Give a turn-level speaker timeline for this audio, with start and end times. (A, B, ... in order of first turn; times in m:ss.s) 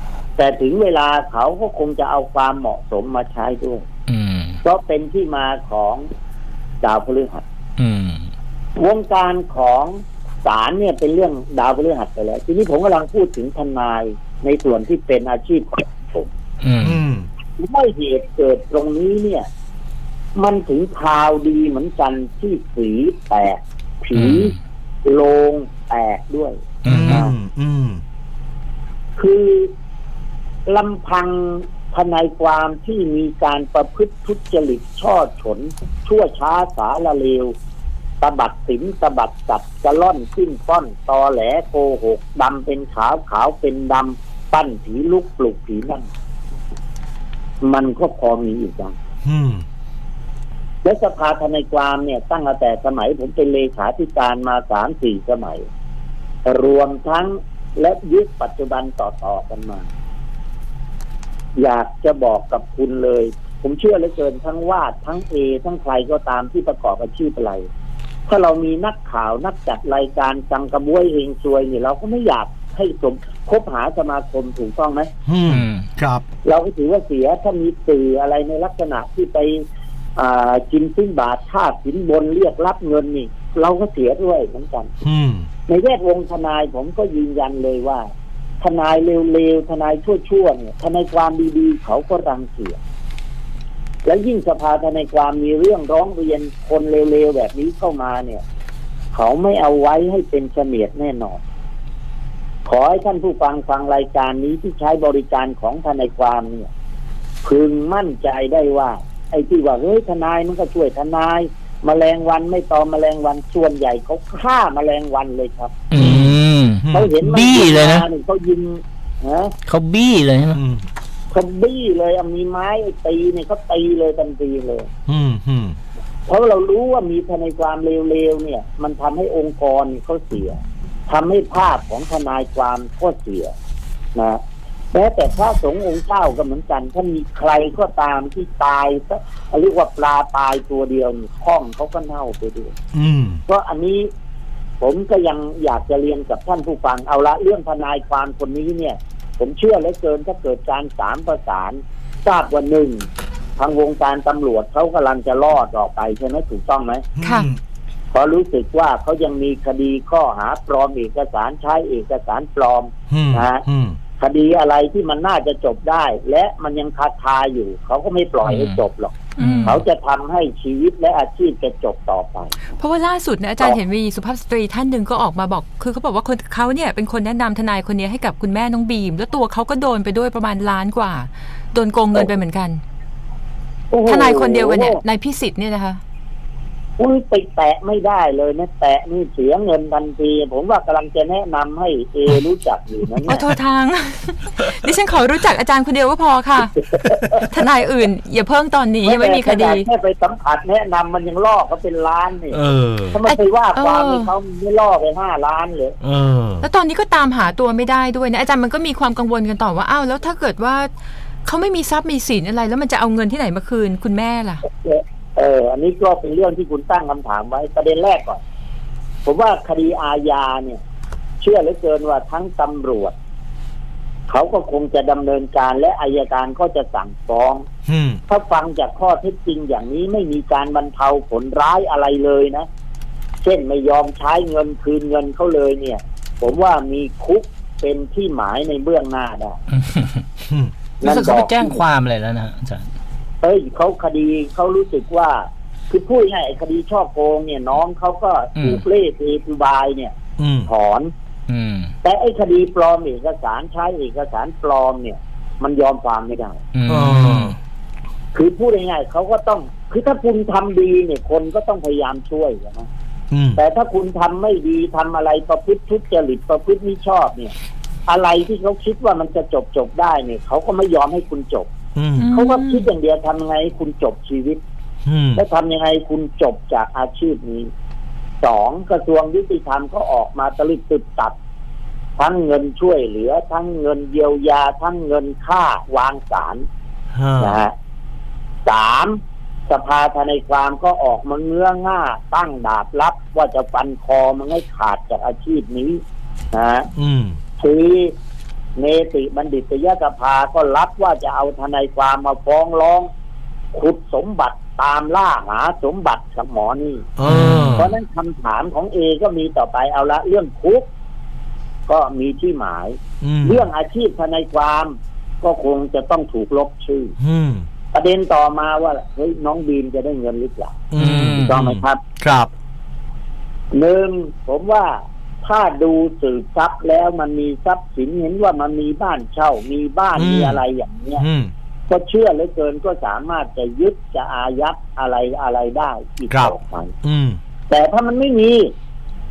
0:00.4-0:03.8 A
0:04.1-0:04.6 B
0:04.6-0:06.0 A
0:06.8-0:07.4 A
0:07.8-0:08.3 B
0:08.8-0:16.3 A
0:16.6-0:17.0 B
0:16.8-0:17.3 C
0:17.6-0:19.4 A
0:20.4-0:27.3 A
0:24.1-0:24.5 B
0:26.8-0:27.2 B
0:26.9-0:28.0 C
0:29.2-0:29.7 A
0:30.7-0:37.5 A
0:38.2-0:46.1 A
0:47.6-0:48.9 A
0:49.2-0:49.6 C
0:50.8-0:55.6 A
0:56.4-0:59.9 A
1:01.6-1:07.6 A
1:08.3-1:15.1 A
1:15.2-1:16.2 C
1:15.5-1:15.8 B
1:16.4-1:19.6 A
1:20.2-1:24.9 A
1:25.0-1:25.5 C
1:25.7-1:28.0 A
1:28.6-1:32.8 A
1:34.0-1:38.4 A
1:39.1-1:41.4 A
1:42.6-1:46.7 A
1:47.4-1:55.7 A
1:55.9-1:58.0 B
1:56.0-1:57.1 C
1:56.9-1:59.5 A
1:59.6-2:00.6 B
2:00.5-2:00.9 C
2:01.3-2:04.9 A
2:05.1-2:05.8 C
2:06.3-2:13.5 A
2:14.1-2:14.4 A
2:14.9-2:22.7 A
2:22.9-2:23.4 C
2:23.5-2:24.1 A
2:24.8-2:33.0 A
2:33.6-2:37.0 A
2:37.2-2:37.6 C
2:37.2-2:37.5 D
2:38.1-2:43.6 A
2:43.1-2:44.0 C
2:44.2-2:52.5 A
2:48.4-2:48.8 B
2:49.4-2:49.8 D
2:49.4-2:49.8 B
2:52.7-3:02.8 D
3:03.9-3:05.0 A
3:04.0-3:06.0 D
3:07.0-3:13.4 A
3:13.3-3:16.8 D
3:17.0-3:17.4 A
3:17.3-3:19.9 D
3:19.0-3:22.6 A
3:22.5-3:23.2 C
3:23.1-3:26.0 A
3:23.3-3:24.3 D
3:26.0-3:26.7 C
3:26.6-3:30.9 D
3:31.4-3:34.6 D
3:34.8-3:38.4 A
3:39.2-3:40.8 A
3:41.4-3:43.1 A
3:44.3-3:47.6 A
3:47.9-3:48.2 C
3:48.3-3:52.6 A
3:53.4-3:59.6 A
3:59.7-4:00.2 B
4:01.0-4:01.8 A
4:01.0-4:02.9 B
4:03.4-4:10.1 A
4:08.6-4:08.8 B
4:10.4-4:10.7 C
4:10.6-4:11.1 A
4:11.5-4:11.9 B
4:12.0-4:16.6 A
4:16.7-4:17.5 B
4:16.9-4:17.6 C
4:18.3-4:22.9 A
4:23.3-4:23.6 C
4:23.6-4:27.5 A
4:28.1-4:31.7 A
4:31.9-4:32.3 C
4:32.2-4:32.9 D
4:32.3-4:34.6 A
4:35.0-4:35.4 C
4:35.4-4:37.7 A
4:38.4-4:41.4 A
4:42.2-4:46.6 A
4:47.1-4:47.6 C
4:47.4-4:47.7 A
4:48.6-4:49.2 A
4:49.7-4:56.0 A
4:56.5-4:56.9 A
4:57.0-4:57.4 C
4:57.6-4:58.1 A
4:58.8-5:03.1 A
5:03.7-5:07.1 A
5:07.2-5:08.0 C
5:07.2-5:07.8 B
5:07.7-5:10.9 A
5:11.9-5:17.1 A
5:13.2-5:13.6 C
5:17.2-5:17.7 C
5:17.9-5:20.8 A
5:20.9-5:22.5 C
5:21.0-5:21.6 B
5:21.4-5:22.0 A
5:23.7-5:31.2 A
5:30.2-5:30.6 C
5:31.2-5:31.5 C
5:31.9-5:36.9 A
5:36.3-5:37.4 C
5:37.7-5:38.7 A